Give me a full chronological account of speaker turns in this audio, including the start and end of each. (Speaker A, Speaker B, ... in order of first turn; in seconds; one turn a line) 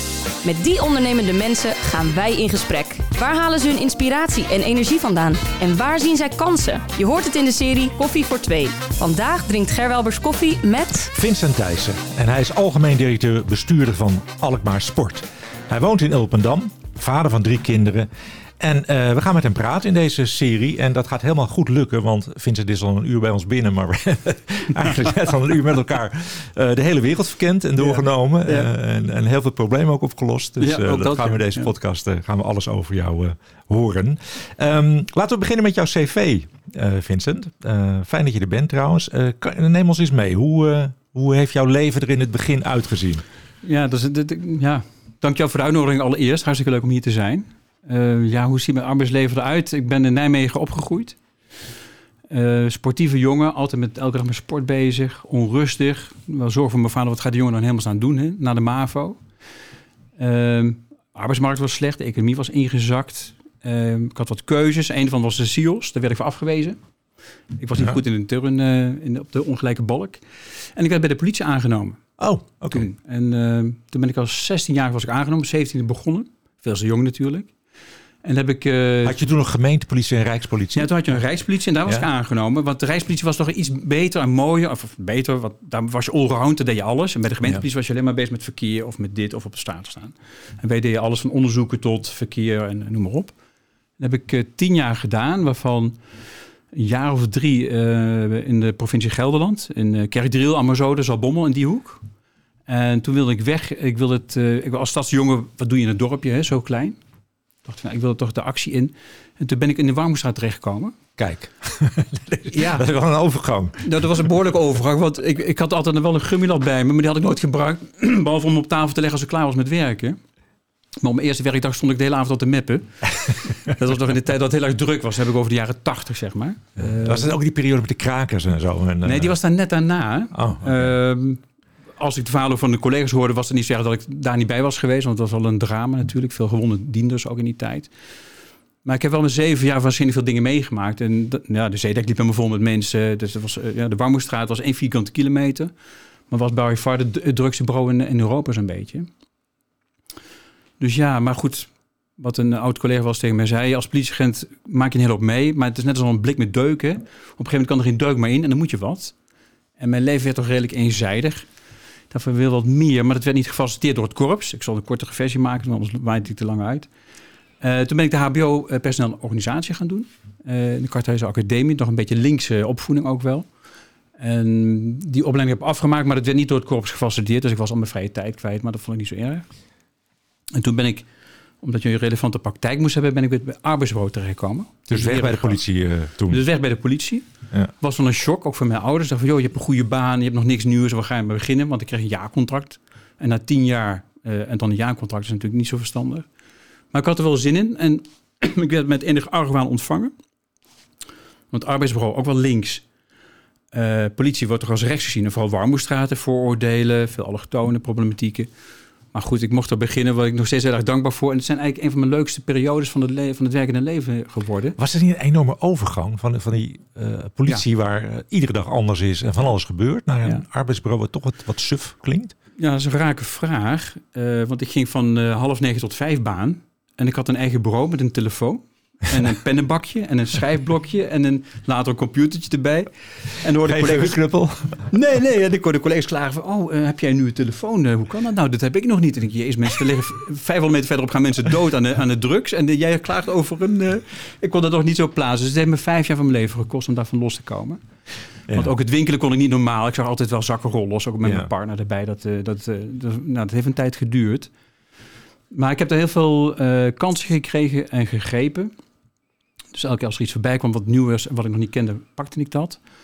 Speaker A: 0.4-11.1
Speaker B: 11.1-43.2
Speaker C: 27.8-28.7
Speaker C: 30.6-31.7
Speaker C: 43.6-51.2
Speaker C: 52.3-59.2
Speaker C: 60.2-66.8
Speaker C: 67.5-72.0
Speaker B: 72.2-72.9
Speaker C: 72.7-77.5
Speaker C: 78.2-79.2
Speaker B: 79.0-80.9
Speaker C: 80.7-93.3
Speaker C: 94.0-96.0
Speaker C: 96.7-102.0
Speaker C: 102.7-107.0
Speaker C: 107.6-111.0
Speaker B: 111.2-114.2
Speaker C: 112.5-112.9
Speaker C: 113.8-120.2
Speaker C: 121.0-127.3
Speaker B: 126.8-129.3
Speaker C: 129.0-131.4
Speaker B: 130.3-130.9
Speaker C: 132.0-137.9
Speaker C: 138.8-145.7
Speaker C: 146.3-149.1
Speaker C: 150.8-159.1
Speaker C: 159.8-161.5
Speaker C: 162.1-166.9
Speaker C: 167.6-173.5
Speaker C: 174.2-179.4
Speaker C: 180.5-181.1
Speaker C: 181.6-185.6
Speaker B: 184.9-186.4
Speaker C: 186.3-196.3
Speaker C: 196.9-200.1
Speaker C: 201.5-202.8
Speaker C: 203.7-208.5
Speaker C: 209.1-214.8
Speaker B: 214.8-222.3
Speaker C: 222.6-234.2
Speaker B: 233.6-234.9
Speaker C: 234.9-247.8
Speaker C: 248.5-254.5
Speaker B: 251.2-251.5
Speaker C: 255.5-258.7
Speaker C: 259.7-262.8